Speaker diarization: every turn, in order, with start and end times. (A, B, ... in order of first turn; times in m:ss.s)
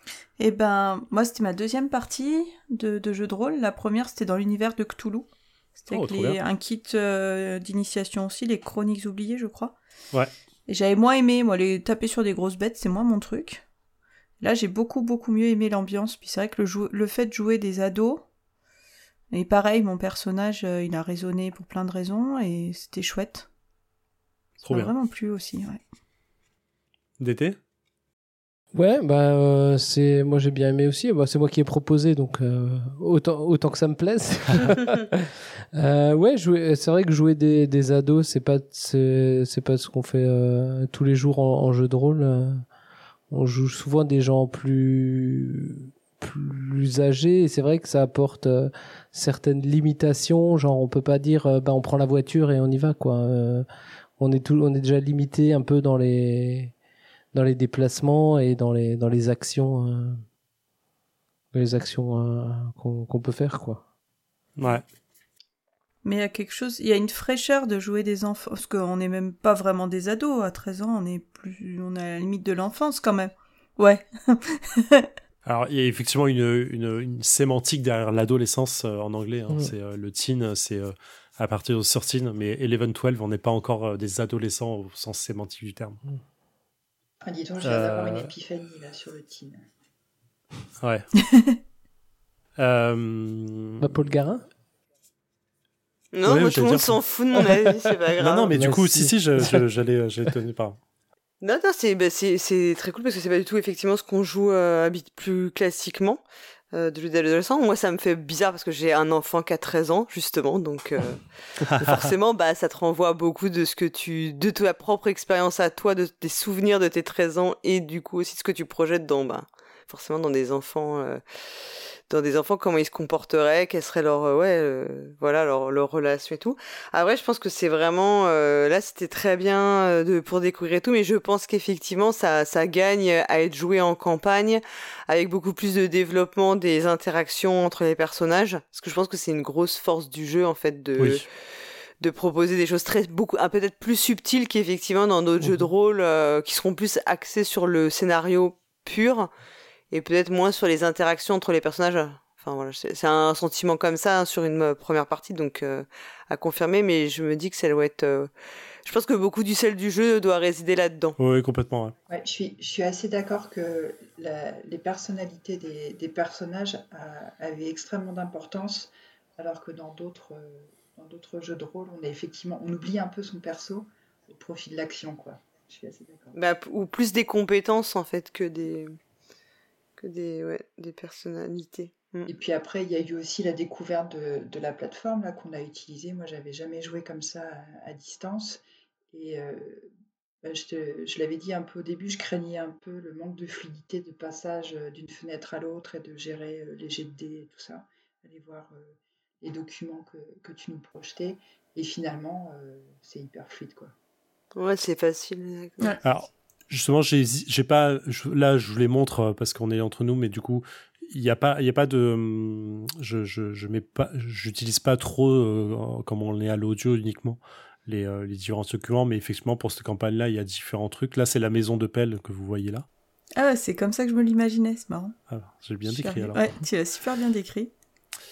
0:00.4-0:09.8 A
0:05.9-0:06.4 B
0:10.7-0:13.6 A
0:14.4-0:18.2 A
0:19.3-0:23.5 A
0:24.6-0:25.8 A
0:24.6-0:24.9 B
0:27.2-0:27.6 B
0:28.7-0:42.7 C
0:43.3-0:53.6 C
0:54.2-0:56.7 C
0:57.3-1:00.2 C
1:01.5-1:03.8 C
1:04.6-1:04.8 B
1:06.0-1:15.1 A
1:15.4-1:26.0 B
1:27.2-1:29.6 D
1:27.6-1:28.3 B
1:30.8-1:31.1 B
1:31.2-1:31.6 A
1:32.6-1:34.2 B
1:33.8-1:34.4 C
1:36.1-1:38.5 E
1:36.2-1:36.9 B
1:38.2-1:40.8 B
1:38.5-1:39.6 C
1:41.4-2:29.3 E
1:51.7-1:52.1 B
2:21.0-2:21.2 B
2:29.9-2:38.3 E
2:38.8-2:41.2 E
2:41.2-2:41.9 B
2:42.1-2:56.4 D
2:56.3-2:59.0 E
3:00.0-3:02.3 E
3:02.3-3:09.9 D
3:10.4-3:23.9 D
3:24.6-3:26.0 E
3:26.0-3:42.8 B
3:43.4-3:45.2 A
3:45.3-3:46.5 B
3:45.8-3:47.7 A